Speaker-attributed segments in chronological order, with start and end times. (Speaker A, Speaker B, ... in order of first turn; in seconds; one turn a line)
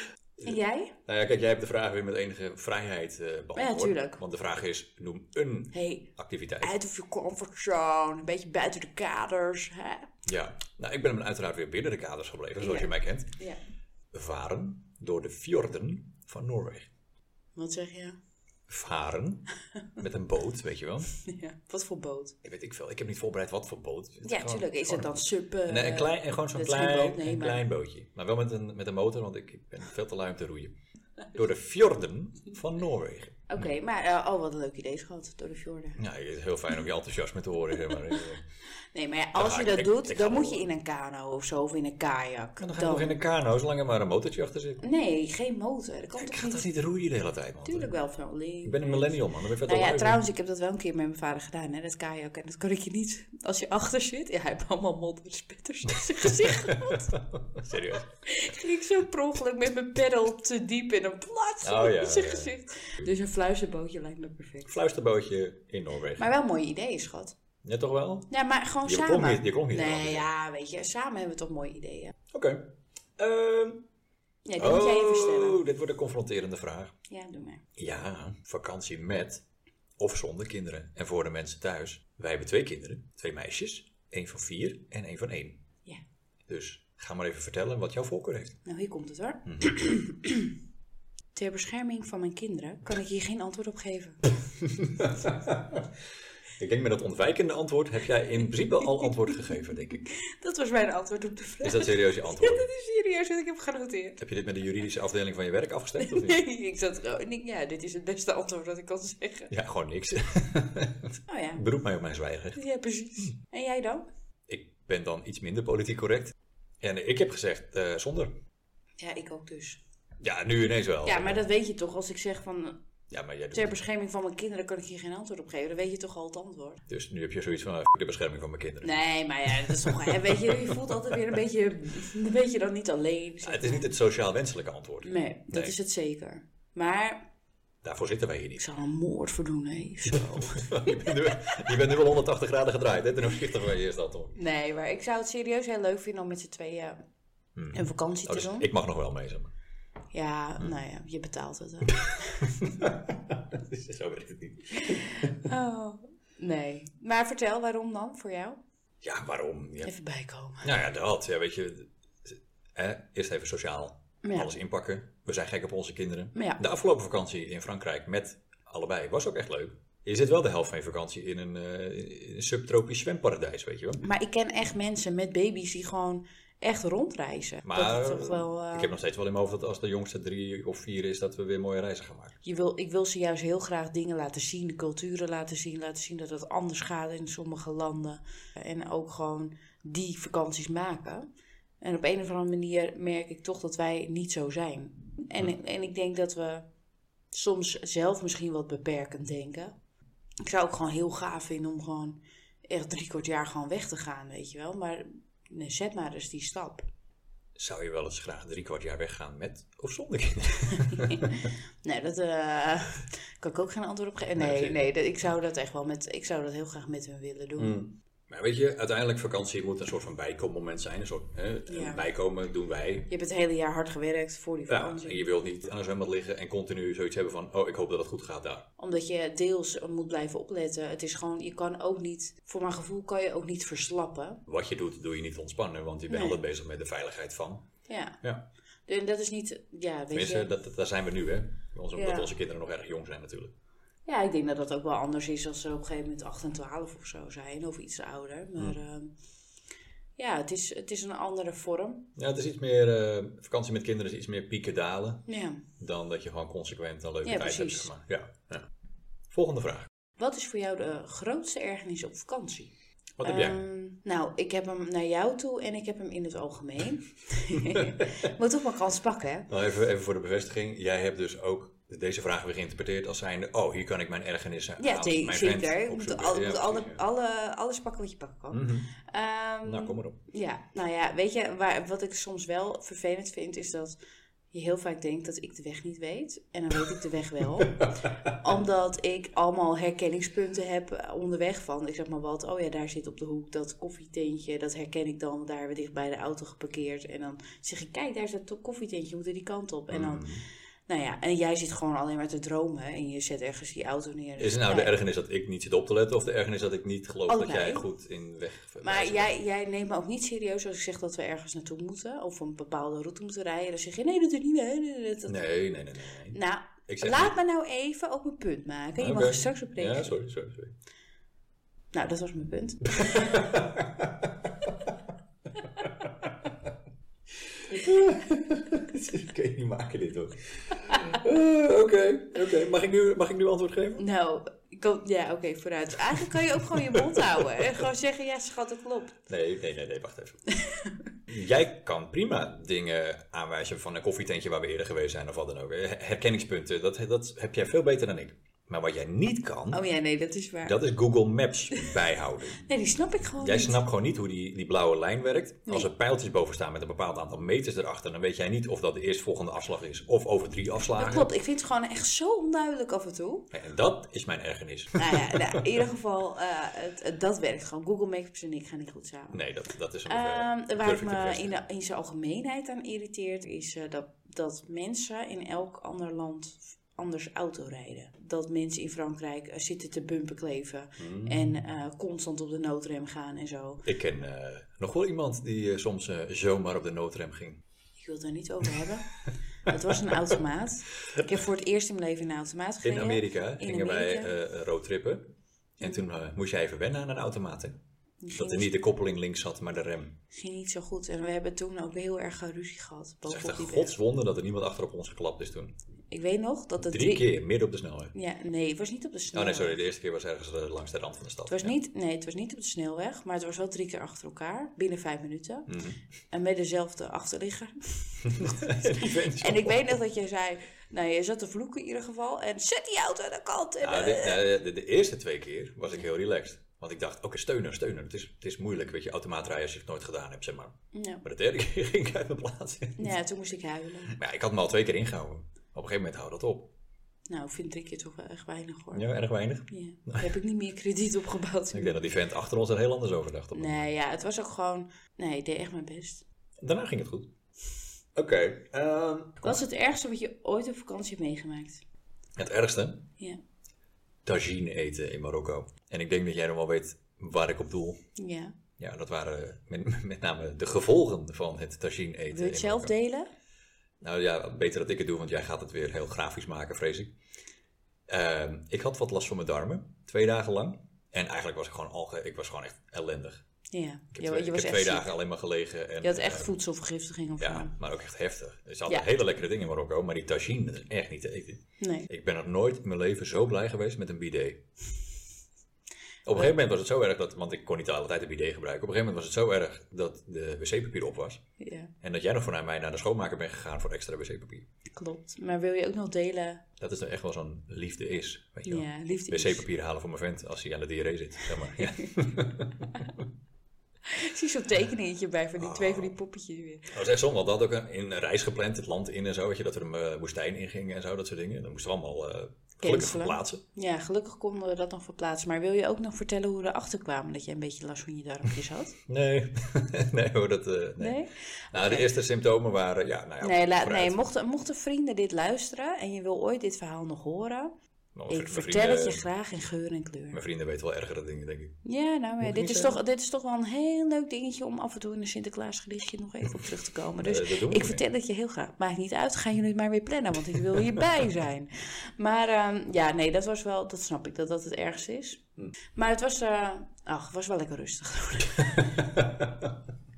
Speaker A: 0.4-1.0
Speaker B: 1.1-6.7
Speaker A: 3.5-4.2
Speaker A: 5.7-10.1
Speaker B: 10.2-13.3
Speaker A: 12.6-13.6
Speaker B: 14.1-16.9
Speaker A: 17.6-18.2
Speaker B: 18.7-19.4
Speaker B: 20.0-21.1
Speaker A: 21.2-22.4
Speaker B: 22.4-25.1
Speaker A: 24.2-27.6
Speaker B: 25.7-30.7
Speaker B: 31.3-33.6
Speaker A: 33.5-36.0
Speaker B: 36.0-38.4
Speaker A: 38.9-43.2
Speaker B: 39.3-40.7
Speaker B: 42.6-44.8
Speaker A: 44.8-46.7
Speaker B: 46.2-47.9
Speaker A: 47.6-57.7
Speaker B: 48.6-50.2
Speaker B: 56.2-58.1
Speaker A: 58.2-64.7
Speaker B: 61.6-62.5
Speaker B: 64.7-66.3
Speaker A: 66.2-67.3
Speaker B: 67.6-68.3
Speaker A: 68.3-72.1
Speaker B: 68.8-70.3
Speaker B: 72.3-73.8
Speaker A: 74.5-75.6
Speaker B: 74.6-76.9
Speaker A: 77.1-77.6
Speaker B: 77.8-79.4
Speaker B: 80.0-85.6
Speaker B: 86.5-88.6
Speaker A: 88.6-90.5
Speaker B: 89.4-89.9
Speaker A: 91.3-94.2
Speaker B: 94.6-95.9
Speaker B: 96.6-100.0
Speaker A: 100.0-104.2
Speaker B: 101.6-102.7
Speaker B: 104.2-106.4
Speaker A: 106.0-109.5
Speaker B: 109.5-112.6
Speaker A: 111.3-111.6
Speaker A: 112.5-114.0
Speaker B: 114.5-118.3
Speaker A: 119.0-119.8
Speaker B: 120.2-121.4
Speaker A: 121.0-122.8
Speaker B: 123.1-123.8
Speaker A: 123.5-126.8
Speaker B: 126.9-128.9
Speaker A: 128.8-133.9
Speaker B: 129.5-130.9
Speaker B: 133.4-135.7
Speaker A: 135.0-137.2
Speaker B: 137.8-138.6
Speaker A: 138.6-141.7
Speaker B: 140.1-144.3
Speaker A: 144.3-147.0
Speaker B: 147.6-149.5
Speaker A: 147.7-148.7
Speaker A: 150.1-152.7
Speaker B: 152.0-155.3
Speaker A: 154.8-158.6
Speaker B: 159.0-159.9
Speaker A: 159.8-160.7
Speaker B: 160.6-174.0
Speaker A: 164.2-164.5
Speaker A: 166.3-166.6
Speaker A: 174.0-178.9
Speaker B: 177.6-182.4
Speaker A: 182.4-191.2
Speaker A: 191.8-196.7
Speaker A: 197.3-199.7
Speaker A: 200.4-206.8
Speaker B: 207.6-211.5
Speaker A: 210.8-217.8
Speaker B: 214.3-214.8
Speaker B: 217.6-223.1
Speaker A: 221.7-222.0
Speaker A: 223.1-225.2
Speaker B: 224.7-228.7
Speaker A: 228.8-234.4
Speaker B: 234.5-237.7
Speaker A: 236.1-236.4
Speaker A: 237.9-238.2
Speaker A: 238.9-240.5
Speaker B: 240.1-243.5
Speaker A: 241.9-242.3
Speaker A: 244.1-249.1
Speaker A: 250.2-252.1
Speaker B: 252.2-255.2
Speaker A: 255.3-255.6
Speaker B: 255.8-258.7
Speaker A: 257.2-257.9
Speaker B: 259.3-259.9
Speaker A: 260.2-262.7
Speaker B: 263.2-263.6
Speaker A: 263.2-269.5
Speaker B: 267.6-268.1
Speaker B: 269.5-277.0
Speaker A: 274.8-284.0
Speaker B: 278.5-278.9
Speaker B: 279.6-280.2
Speaker A: 284.5-300.3
Speaker B: 287.6-288.5
Speaker B: 299.9-300.4
Speaker A: 300.9-304.9
Speaker B: 304.4-309.4
Speaker A: 307.3-307.8
Speaker A: 308.8-315.5
Speaker B: 315.3-317.3
Speaker A: 316.3-320.1
Speaker B: 319.0-320.7
Speaker A: 321.9-323.5
Speaker B: 322.9-324.7
Speaker B: 325.6-326.7
Speaker B: 327.5-334.0
Speaker A: 330.9-331.2
Speaker A: 334.0-339.2
Speaker B: 336.7-337.6
Speaker B: 339.3-340.4
Speaker A: 340.5-341.0
Speaker B: 341.3-349.8
Speaker A: 349.7-350.8
Speaker B: 350.6-352.6
Speaker A: 352.6-353.8
Speaker B: 353.4-361.3
Speaker A: 360.9-363.5
Speaker B: 363.5-365.6
Speaker A: 364.9-369.4
Speaker B: 369.3-371.6
Speaker A: 370.1-383.9
Speaker B: 381.0-381.6
Speaker B: 383.8-387.6
Speaker A: 388.0-389.1
Speaker A: 389.6-394.3
Speaker B: 389.7-390.3
Speaker B: 392.8-397.8
Speaker A: 398.2-398.7
Speaker B: 398.3-400.1
Speaker A: 400.3-403.9
Speaker B: 403.2-405.7
Speaker A: 406.1-407.3
Speaker B: 406.8-408.1
Speaker A: 408.1-409.8
Speaker B: 409.3-411.7
Speaker A: 411.5-415.7
Speaker B: 415.7-416.0
Speaker A: 416.3-424.5
Speaker B: 418.2-420.0
Speaker B: 423.8-433.1
Speaker A: 430.9-431.2
Speaker A: 433.0-434.1
Speaker B: 434.1-436.7
Speaker A: 437.3-439.1
Speaker B: 438.9-440.3
Speaker A: 439.7-442.0
Speaker B: 441.7-443.9
Speaker A: 443.5-446.2
Speaker B: 446.6-447.3
Speaker B: 448.1-449.6
Speaker A: 449.4-451.8
Speaker B: 452.4-453.1
Speaker B: 454.2-458.0
Speaker A: 458.1-458.5
Speaker B: 458.8-462.9
Speaker A: 462.3-463.3
Speaker B: 464.0-467.1
Speaker B: 468.1-473.4
Speaker A: 473.7-475.1
Speaker B: 474.1-476.5
Speaker A: 476.0-477.7
Speaker B: 477.4-484.6
Speaker A: 481.8-482.1
Speaker B: 486.2-491.4
Speaker A: 491.6-491.9
Speaker B: 492.0-494.6
Speaker A: 494.9-496.6
Speaker B: 496.8-503.2
Speaker A: 498.6-499.6
Speaker A: 501.7-502.1
Speaker A: 504.1-506.9
Speaker B: 505.6-506.1
Speaker B: 506.9-513.6
Speaker A: 512.8-519.0
Speaker B: 519.1-524.2
Speaker A: 521.0-522.1
Speaker A: 523.4-527.7
Speaker B: 528.1-529.2
Speaker A: 528.3-530.4
Speaker B: 530.3-531.8
Speaker A: 531.8-545.4
Speaker B: 532.4-533.0
Speaker B: 537.2-538.0
Speaker A: 546.0-549.1
Speaker B: 548.6-549.7